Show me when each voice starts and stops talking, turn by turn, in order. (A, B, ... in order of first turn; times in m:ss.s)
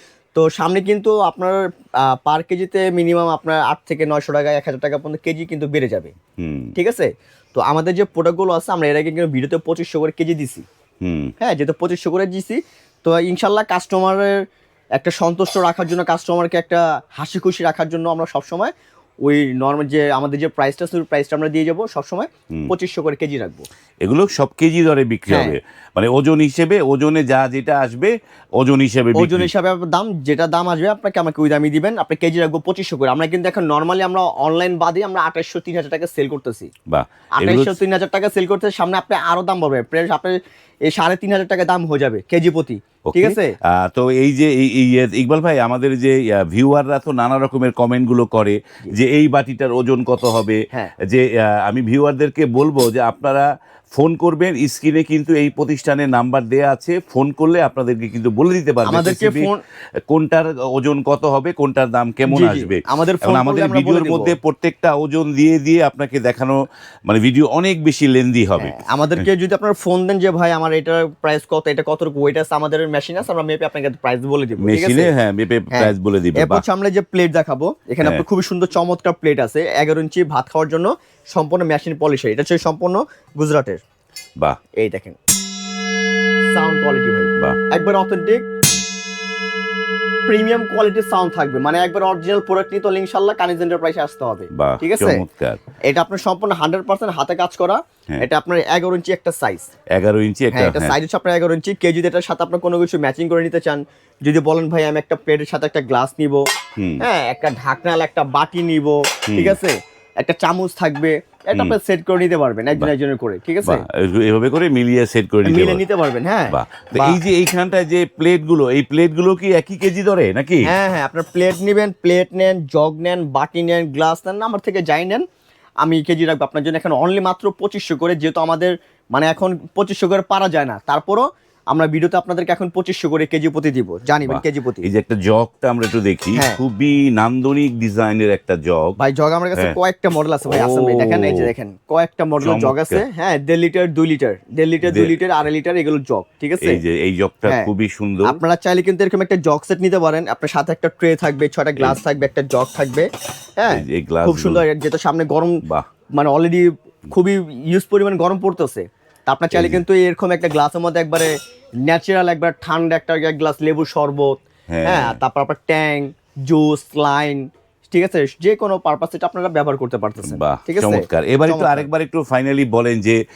0:00.3-0:06.1 A
0:06.4-0:06.7 B
0:06.8-0:10.6 A
0:11.0-0:11.3 B
0:11.4-0:14.4 A
0:15.0-0:18.7 A
0:19.2-0:23.6 A
0:24.0-0:29.5 B
0:25.3-0:25.6 A
0:29.1-0:36.7 A
0:36.9-0:37.8 B
0:37.4-0:43.5 A
0:43.1-0:59.5 B
0:58.8-0:59.6 A
1:00.1-1:06.5 B
1:02.3-1:04.3 A
1:07.1-1:09.2 B
1:08.6-1:15.1 A
1:14.6-1:16.6 B
1:15.7-1:23.8 A
1:24.8-1:25.2 A
1:26.5-1:28.4 A
1:30.3-1:35.2 A
1:34.5-1:35.6 B
1:35.8-1:39.7 A
1:39.9-1:41.0 B
1:40.5-1:46.4 A
1:46.8-1:47.0 B
1:47.0-1:53.8 A
1:49.3-1:49.6 B
1:53.6-1:55.8 B
1:55.4-1:57.2 A
1:56.5-2:00.7 B
2:00.6-2:05.2 A
2:05.8-2:14.9 A
2:14.3-2:19.0 B
2:16.3-2:16.6 A
2:19.0-2:26.8 A
2:20.4-2:21.5 B
2:22.4-2:23.0 B
2:24.8-2:25.1 B
2:26.6-2:28.4 B
2:28.2-2:35.6 A
2:33.7-2:34.6 B
2:36.1-2:41.3 A
2:39.5-2:39.8 B
2:41.8-2:44.3 A
2:44.7-2:45.2 B
2:44.8-2:51.9 A
2:50.3-2:53.2 B